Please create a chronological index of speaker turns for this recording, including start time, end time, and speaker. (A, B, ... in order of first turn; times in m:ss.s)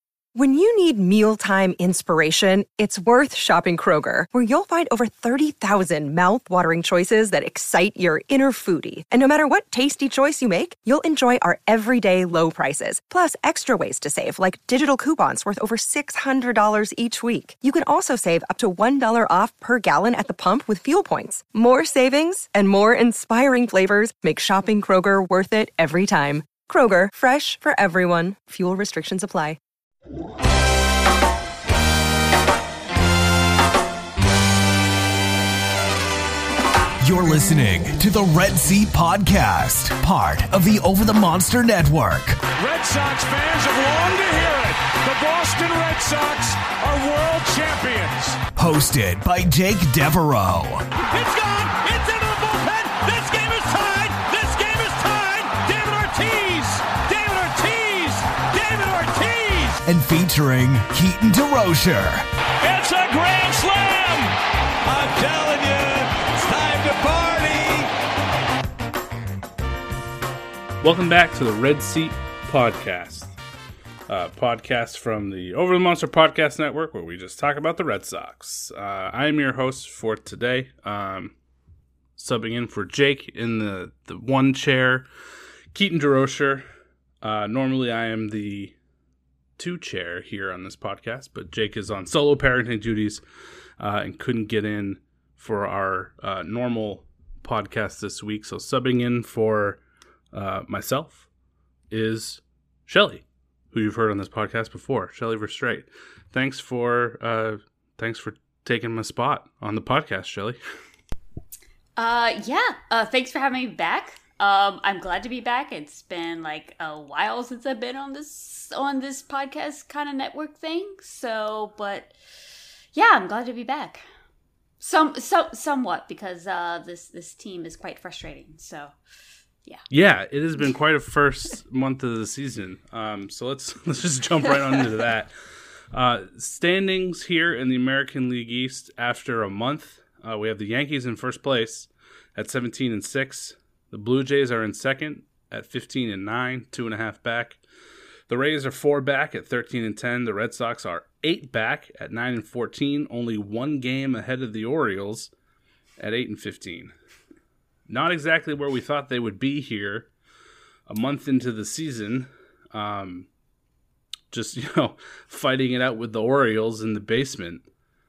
0:00.4-0:29.6 A
0:37.0-0:42.4 B
0:42.6-0:48.4 C
0:48.6-0:50.9 B
0:51.0-0:59.8 C
0:59.8-1:02.3 B
1:02.6-1:03.4 D
1:02.8-1:04.2 C
1:04.8-1:07.9 D
1:10.8-1:13.3 E
1:14.1-1:21.3 E
1:22.2-1:25.1 E
1:25.7-1:26.7 E
1:27.2-1:28.8 E
1:29.6-1:33.2 E
1:33.8-1:39.8 E
1:40.3-1:41.3 E
1:41.9-1:50.6 E
1:52.0-2:02.2 F
2:02.9-2:04.0 F
2:04.8-2:09.0 F
2:09.9-2:15.3 E
2:15.9-2:27.6 E
2:28.3-2:35.3 E
2:36.0-2:36.9 E
2:37.9-2:40.1 E
2:40.9-2:43.3 E
2:44.3-2:47.6 E